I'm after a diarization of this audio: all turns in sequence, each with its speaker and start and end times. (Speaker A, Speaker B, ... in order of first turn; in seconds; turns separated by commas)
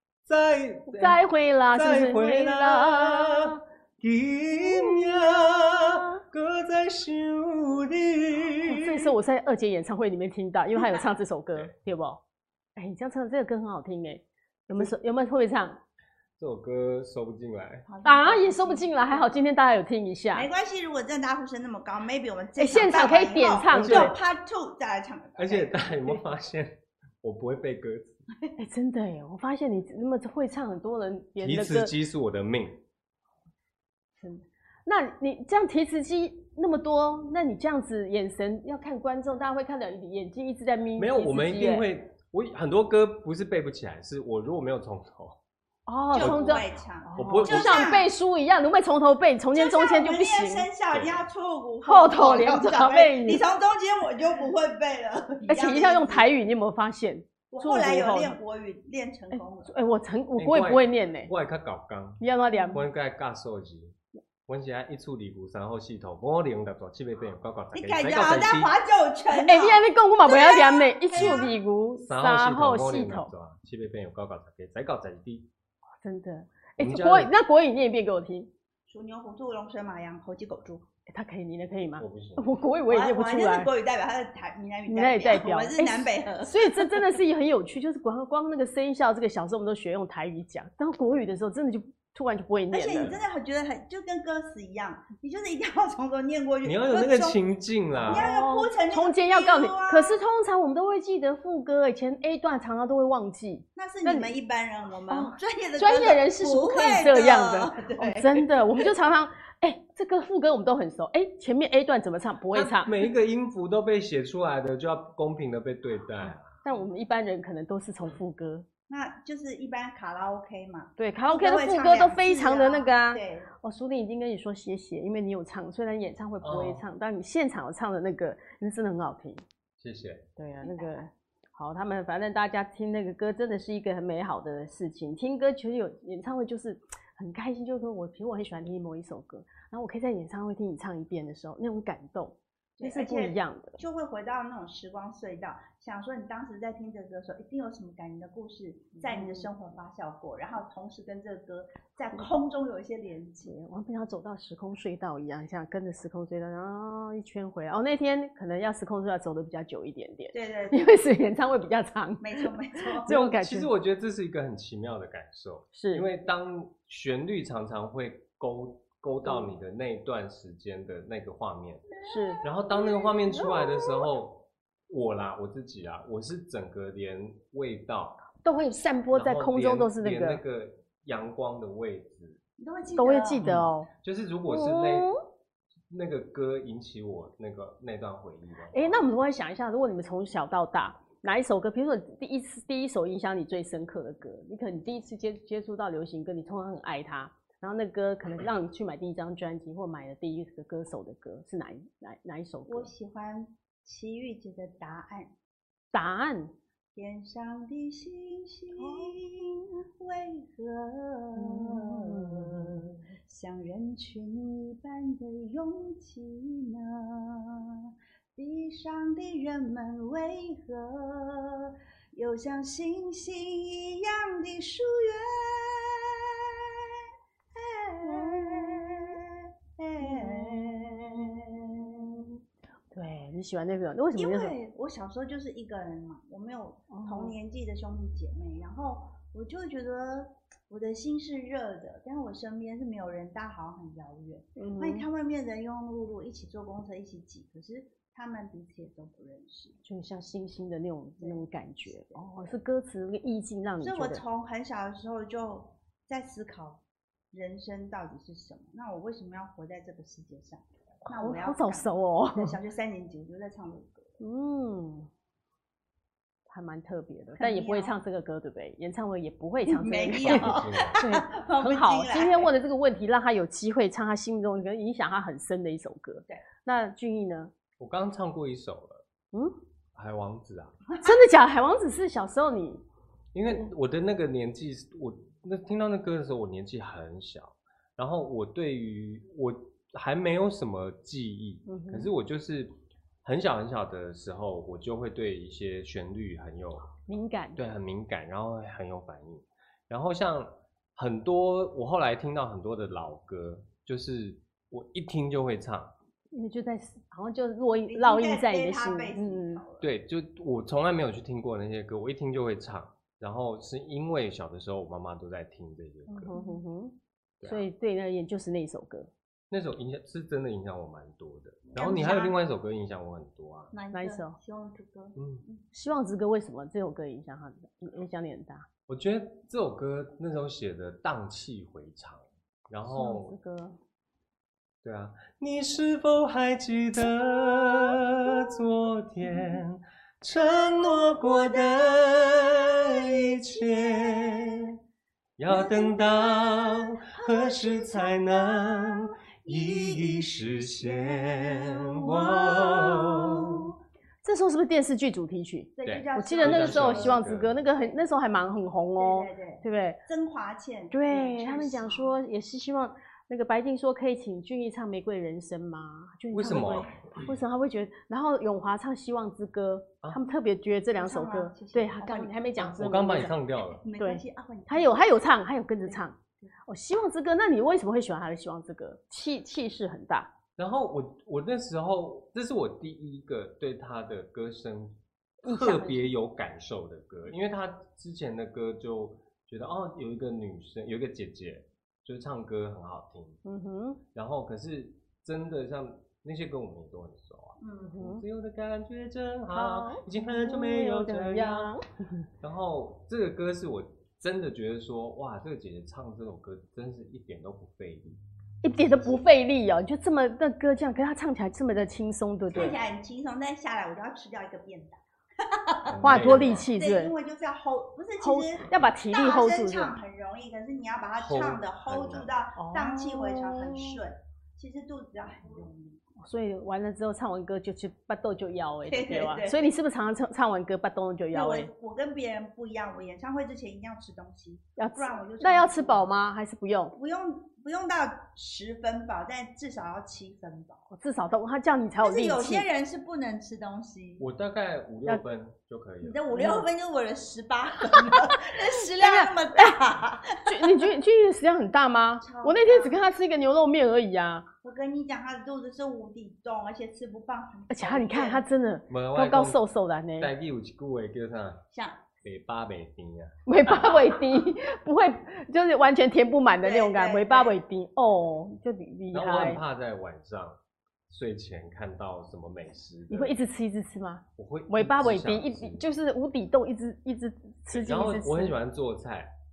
Speaker A: 0.2-1.2, Speaker B: 0.9-3.6, Speaker A: 1.7-9.1, Speaker B: 4.5-6.2, Speaker B: 8.6-12.2, Speaker C: 10.8-11.0, Speaker B: 12.8-15.8, Speaker A: 16.4-17.9, Speaker C: 17.9-19.3, Speaker B: 18.0-20.5, Speaker C: 20.3-26.1, Speaker B: 22.6-24.2, Speaker A: 23.7-24.2, Speaker A: 25.4-28.2, Speaker B: 28.6-31.9, Speaker A: 31.4-32.8, Speaker B: 34.2-41.9, Speaker A: 41.0-45.4, Speaker B: 45.9-50.7, Speaker C: 46.1-48.1, Speaker A: 46.1-46.6, Speaker A: 47.2-48.0, Speaker C: 49.5-56.3, Speaker A: 50.9-51.2, Speaker B: 51.9-53.4, Speaker B: 55.5-58.4, Speaker C: 57.5-59.7, Speaker B: 59.3-61.3, Speaker A: 60.4-64.0, Speaker B: 62.2-62.8, Speaker A: 64.5-68.7, Speaker C: 67.7-71.6, Speaker B: 69.3-73.3, Speaker A: 71.2-75.5, Speaker B: 76.0-78.5, Speaker A: 76.8-77.3, Speaker C: 78.9-80.9, Speaker B: 81.1-83.7, Speaker A: 82.0-82.5, Speaker C: 82.9-87.1, Speaker B: 84.9-93.2, Speaker C: 92.7-97.4, Speaker A: 96.6-98.3, Speaker C: 98.0-100.2, Speaker B: 98.1-104.3, Speaker C: 103.8-108.9, Speaker B: 105.1-113.0, Speaker A: 112.5-116.5, Speaker B: 116.6-118.7, Speaker C: 118.9-123.5, Speaker B: 121.0-129.4, Speaker A: 126.4-126.8, Speaker A: 129.8-130.3, Speaker B: 130.4-143.8, Speaker C: 130.6-131.1, Speaker C: 142.8-153.6, Speaker B: 149.0-149.5, Speaker B: 153.5-163.7, Speaker C: 160.3-161.0, Speaker C: 162.2-163.1, Speaker A: 163.1-171.9, Speaker B: 165.7-166.1, Speaker B: 169.2-169.5, Speaker C: 171.9-173.7, Speaker B: 172.0-172.4, Speaker A: 172.4-178.3, Speaker B: 178.4-180.4, Speaker A: 179.1-182.4, Speaker C: 182.6-183.5, Speaker B: 183.0-183.9, Speaker A: 183.4-185.1, Speaker B: 184.5-185.2, Speaker A: 185.9-189.0, Speaker B: 188.7-202.9, Speaker C: 202.7-205.3, Speaker B: 205.9-206.5, Speaker C: 206.9-227.0, Speaker B: 208.8-209.1, Speaker B: 211.4-213.0, Speaker C: 227.5-232.3, Speaker B: 228.0-229.2, Speaker B: 230.0-231.5, Speaker B: 232.9-234.6, Speaker C: 234.2-249.8, Speaker B: 236.9-237.3, Speaker B: 244.6-245.1, Speaker B: 249.8-254.2, Speaker C: 251.2-252.5, Speaker C: 253.8-264.2, Speaker B: 261.1-262.6, Speaker B: 264.2-265.1, Speaker B: 266.5-277.5, Speaker C: 267.4-268.0, Speaker C: 269.7-272.5, Speaker A: 270.2-271.0, Speaker A: 277.8-279.0, Speaker A: 279.9-280.8, Speaker C: 280.9-281.2, Speaker B: 281.0-282.8, Speaker A: 283.3-296.9, Speaker B: 291.7-292.1, Speaker B: 297.1-297.6, Speaker A: 297.6-305.9, Speaker B: 306.3-309.6, Speaker C: 307.9-309.9, Speaker A: 309.8-316.3, Speaker B: 316.1-319.1, Speaker C: 316.3-316.6, Speaker A: 317.4-317.7, Speaker A: 319.5-323.7, Speaker C: 321.7-322.4, Speaker C: 323.7-325.6, Speaker B: 323.9-324.4, Speaker A: 325.2-325.4, Speaker B: 325.7-328.7, Speaker A: 328.9-333.3, Speaker B: 332.9-333.8, Speaker A: 334.8-344.8, Speaker C: 337.3-338.6, Speaker C: 339.3-339.6, Speaker C: 340.3-344.7, Speaker A: 345.4-353.7, Speaker C: 345.5-353.7, Speaker B: 354.2-360.0, Speaker C: 355.8-358.1, Speaker A: 355.9-357.6, Speaker C: 359.0-362.1, Speaker B: 360.9-373.4, Speaker A: 366.3-367.3, Speaker C: 371.0-375.2, Speaker A: 372.6-373.8, Speaker B: 374.0-380.3, Speaker C: 375.9-376.5, Speaker A: 380.6-393.4, Speaker B: 385.4-386.1, Speaker B: 393.4-394.0, Speaker A: 394.1-401.8, Speaker C: 397.6-398.0, Speaker B: 397.8-398.2, Speaker B: 399.5-402.2, Speaker A: 402.4-408.2, Speaker B: 408.6-412.8, Speaker C: 408.9-409.2, Speaker C: 412.5-426.0, Speaker A: 415.9-416.7, Speaker B: 416.0-417.1, Speaker B: 418.2-420.0, Speaker A: 421.2-422.3, Speaker B: 422.6-424.0, Speaker B: 426.2-431.7, Speaker C: 428.9-429.7, Speaker C: 431.3-436.1, Speaker B: 434.8-436.9, Speaker C: 436.9-440.9, Speaker B: 440.9-442.7, Speaker C: 442.0-444.2, Speaker A: 444.2-446.3, Speaker C: 446.0-450.9, Speaker B: 446.3-446.7, Speaker B: 447.8-449.8, Speaker B: 450.4-454.5, Speaker C: 452.2-453.0, Speaker C: 454.6-458.4, Speaker B: 457.7-460.3, Speaker A: 458.9-459.6, Speaker A: 460.2-461.6, Speaker C: 461.7-462.0, Speaker A: 462.2-463.4, Speaker B: 463.5-469.6, Speaker C: 466.6-467.6, Speaker A: 469.1-473.4, Speaker B: 473.1-478.6, Speaker A: 474.4-475.9, Speaker A: 477.7-479.3